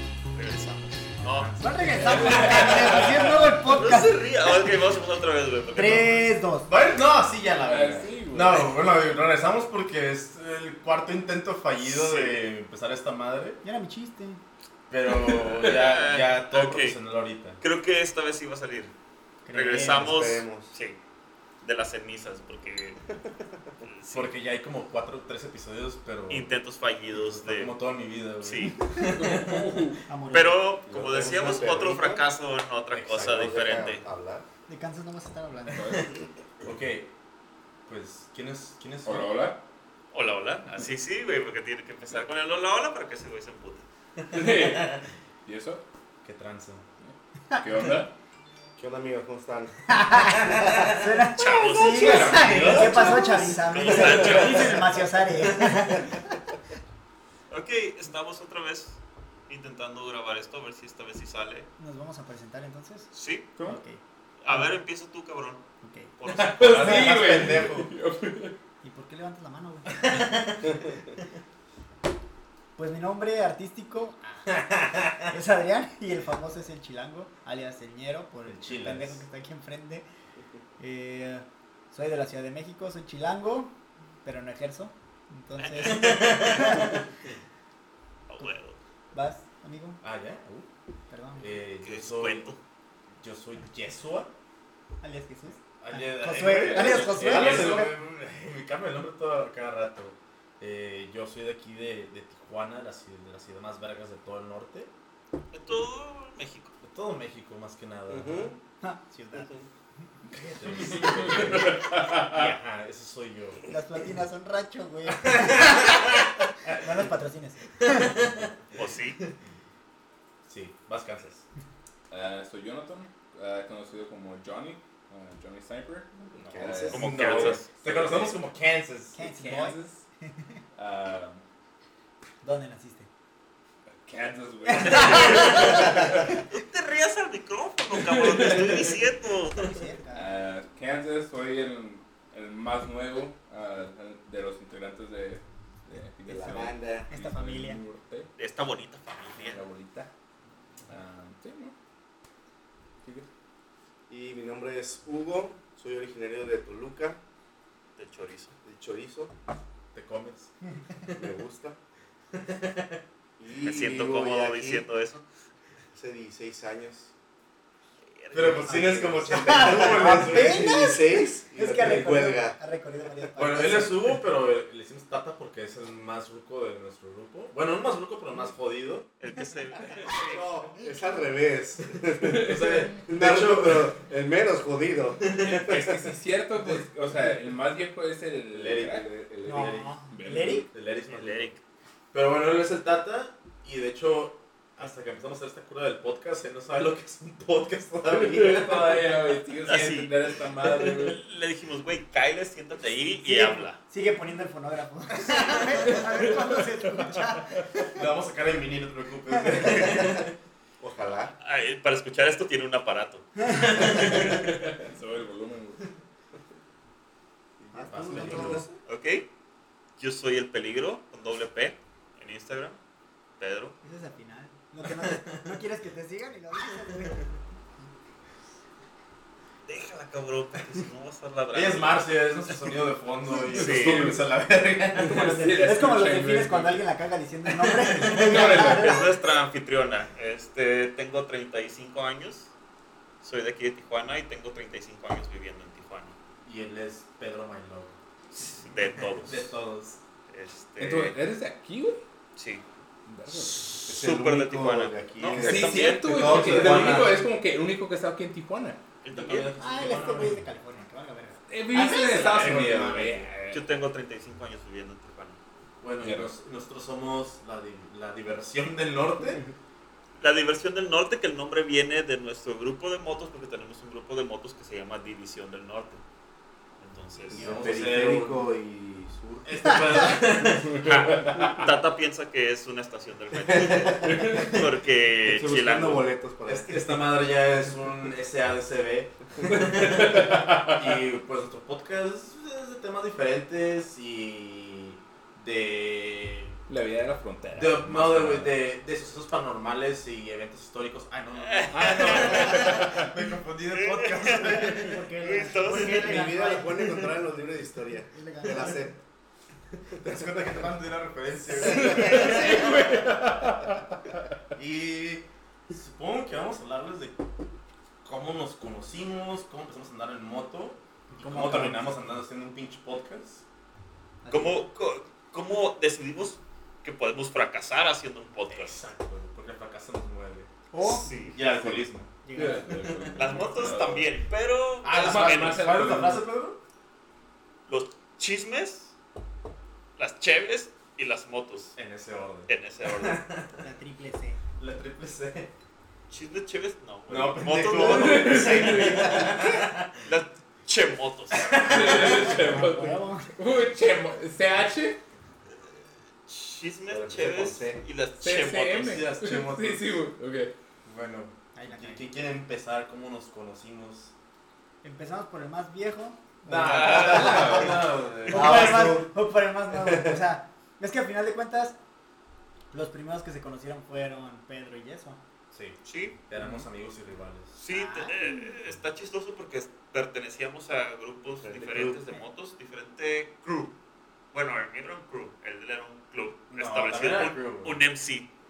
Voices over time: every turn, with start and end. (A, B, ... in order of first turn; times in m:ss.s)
0:00.3-0:01.5 A
0:01.4-0:02.3 B
0:01.6-0:04.3 C
0:02.0-0:03.3 D
0:02.4-0:06.4 A
0:05.8-0:06.7 C
0:06.7-0:13.6 B
0:07.6-0:08.8 D
0:11.8-0:12.4 A
0:13.6-0:14.4 C
0:14.9-0:17.6 B
0:15.1-0:15.5 D
0:15.6-0:17.0 A
0:17.6-0:18.9 A
0:19.5-0:20.1 C
0:19.5-0:21.0 A
0:19.9-0:20.8 E
0:21.6-0:23.1 A
0:23.8-0:24.3 A
0:24.1-0:26.5 B
0:26.3-0:27.8 A
0:27.1-0:29.7 B
0:28.4-0:28.8 A
0:29.1-0:30.0 D
0:30.1-0:30.6 C
0:30.3-0:34.0 A
0:30.9-0:32.2 E
0:32.9-0:33.6 B
0:33.2-0:34.5 E
0:34.7-0:36.0 C
0:35.7-0:36.1 D
0:36.6-0:37.1 B
0:37.9-0:39.5 B
0:39.0-0:39.6 D
0:40.1-0:43.8 A
0:44.3-0:45.8 D
0:44.3-0:44.9 B
0:46.2-0:46.8 B
0:47.0-0:48.1 D
0:47.5-0:48.0 C
0:48.8-0:49.7 E
0:49.9-0:56.3 C
0:50.4-0:50.9 B
0:51.4-0:52.9 A
0:51.8-0:54.0 B
0:52.4-0:52.9 D
0:53.7-0:55.0 A
0:57.5-1:01.7 A
1:01.8-1:04.8 C
1:03.1-1:03.5 A
1:04.4-1:05.6 A
1:05.8-1:06.1 C
1:06.2-1:07.0 A
1:06.2-1:07.9 B
1:06.6-1:08.6 D
1:06.8-1:07.2 C
1:08.8-1:10.7 C
1:10.1-1:10.7 B
1:12.8-1:20.0 C
1:14.6-1:15.2 B
1:18.5-1:19.2 B
1:20.8-1:27.0 C
1:25.6-1:27.0 A
1:25.9-1:26.8 B
1:28.3-1:28.8 A
1:29.1-1:30.0 C
1:30.0-1:30.7 B
1:31.1-1:31.5 C
1:31.4-1:32.5 B
1:31.8-1:32.6 A
1:33.2-1:34.3 B
1:35.0-1:38.0 C
1:35.8-1:44.9 B
1:36.4-1:37.8 D
1:45.5-1:46.7 A
1:46.8-1:48.5 B
1:48.1-1:48.6 E
1:48.8-1:49.5 C
1:49.4-1:49.7 E
1:50.4-1:51.1 C
1:50.5-1:53.7 B
1:50.9-1:52.6 D
1:53.7-1:58.1 C
1:55.1-1:56.8 B
1:57.8-1:58.6 B
1:58.8-1:59.2 A
2:00.4-2:01.4 B
2:02.1-2:08.4 D
2:06.4-2:07.6 E
2:06.4-2:07.7 A
2:06.9-2:09.2 B
2:09.2-2:09.8 C
2:09.2-2:10.0 D
2:10.8-2:11.4 D
2:12.4-2:13.1 C
2:14.0-2:16.4 D
2:14.6-2:16.3 C
2:15.1-2:19.8 A
2:17.9-2:18.8 D
2:19.5-2:20.3 C
2:20.1-2:28.3 D
2:26.3-2:27.1 E
2:26.4-2:27.8 C
2:28.4-2:29.6 A
2:29.4-2:30.1 D
2:30.9-2:31.8 D
2:34.1-2:37.2 E
2:38.0-2:38.5 A
2:38.6-2:39.3 E
2:39.9-2:40.5 B
2:41.2-2:41.8 E
2:42.3-2:43.0 B
2:43.4-2:44.9 E
2:43.6-2:45.2 A
2:45.9-2:47.1 E
2:48.2-2:49.2 A
2:48.3-2:50.8 B
2:48.5-2:52.6 E
2:49.3-2:54.1 C
2:53.4-2:59.1 B
2:59.2-3:00.4 A
3:00.1-3:01.1 C
3:00.2-3:06.0 E
3:02.2-3:04.0 B
3:02.3-3:03.0 D
3:05.3-3:09.1 D
3:08.5-3:09.0 B
3:08.8-3:10.0 E
3:09.4-3:10.7 C
3:10.1-3:10.7 D
3:10.7-3:11.5 B
3:10.9-3:11.6 A
3:12.1-3:19.1 B
3:18.1-3:21.2 D
3:19.7-3:20.1 A
3:20.8-3:23.8 A
3:23.2-3:28.1 C
3:25.6-3:27.7 D
3:27.9-3:30.3 B
3:30.8-3:31.4 E
3:31.4-3:34.2 A
3:33.6-3:34.0 B
3:33.8-3:35.9 D
3:37.6-3:38.8 E
3:37.7-3:38.7 C
3:37.9-3:38.6 B
3:38.9-3:39.3 A
3:40.0-3:42.8 A
3:43.4-3:43.8 A
3:43.8-3:47.9 C
3:49.7-3:52.2 A
3:51.5-3:55.4 B
3:53.5-3:54.1 A
3:53.5-3:54.2 D
3:54.9-3:56.8 D
3:55.1-3:59.1 C
3:57.9-3:58.5 B
3:58.0-3:59.1 D
3:58.6-4:02.5 A
4:03.2-4:06.2 A
4:06.4-4:08.0 B
4:08.3-4:09.6 A
4:09.2-4:10.0 B
4:10.3-4:11.2 A
4:10.8-4:12.0 D
4:12.4-4:12.6 A
4:13.1-4:13.7 D
4:13.5-4:16.3 A
4:13.9-4:17.2 E
4:15.3-4:18.8 D
4:16.0-4:17.3 B
4:19.0-4:19.5 A
4:19.1-4:20.4 B
4:19.6-4:23.2 C
4:21.5-4:23.7 D
4:21.9-4:23.2 B
4:23.5-4:25.4 A
4:25.8-4:29.4 B
4:26.0-4:26.3 D
4:30.2-4:36.0 A
4:36.8-4:37.5 A
4:37.3-4:38.4 B
4:37.3-4:40.1 E
4:39.4-4:41.0 B
4:40.7-4:41.7 D
4:40.8-4:46.1 A
4:43.5-4:43.9 B
4:43.9-4:44.6 D
4:45.2-4:47.1 E
4:46.5-4:56.6 B
4:49.5-4:50.8 D
4:56.7-4:58.6 D
4:57.5-5:05.0 B
5:01.4-5:02.9 A
5:02.5-5:03.1 D
5:03.7-5:06.2 A
5:04.4-5:07.1 C
5:05.9-5:09.0 E
5:08.1-5:08.8 C
5:09.9-5:12.9 B
5:10.0-5:10.6 E
5:11.6-5:13.9 D
5:14.6-5:17.2 B
5:18.0-5:23.4 B
5:21.2-5:22.0 C
5:24.2-5:24.7 C
5:24.3-5:28.8 A
5:28.5-5:30.5 B
5:30.7-5:31.1 C
5:30.8-5:31.4 A
5:31.3-5:32.1 B
5:32.2-5:32.9 C
5:32.4-5:34.1 D
5:32.8-5:34.0 B
5:33.1-5:35.9 A
5:34.8-5:36.6 B
5:35.0-5:36.3 D
5:37.7-5:38.9 A
5:40.0-5:41.8 A
5:41.8-5:43.6 B
5:42.5-5:43.2 A
5:43.6-5:44.4 C
5:44.6-5:45.5 B
5:46.1-5:49.4 A
5:47.1-5:50.0 B
5:47.7-5:49.1 D
5:49.1-5:49.4 C
5:50.0-5:52.2 A
5:51.4-5:52.3 B
5:51.5-5:55.0 D
5:52.1-5:53.4 C
5:56.3-5:59.0 A
5:56.9-5:57.8 E
5:58.2-6:00.5 D
5:58.8-6:00.0 B
6:00.8-6:04.1 B
6:01.6-6:02.1 C
6:04.8-6:11.8 C
6:06.5-6:08.9 B
6:06.7-6:07.3 A
6:07.1-6:07.8 D
6:08.3-6:09.1 E
6:09.7-6:10.2 E
6:12.7-6:15.2 C
6:15.5-6:17.6 B
6:15.8-6:16.2 A
6:16.4-6:16.6 C
6:17.6-6:23.8 A
6:17.7-6:18.6 C
6:21.4-6:22.0 E
6:24.3-6:28.3 A
6:26.5-6:27.8 B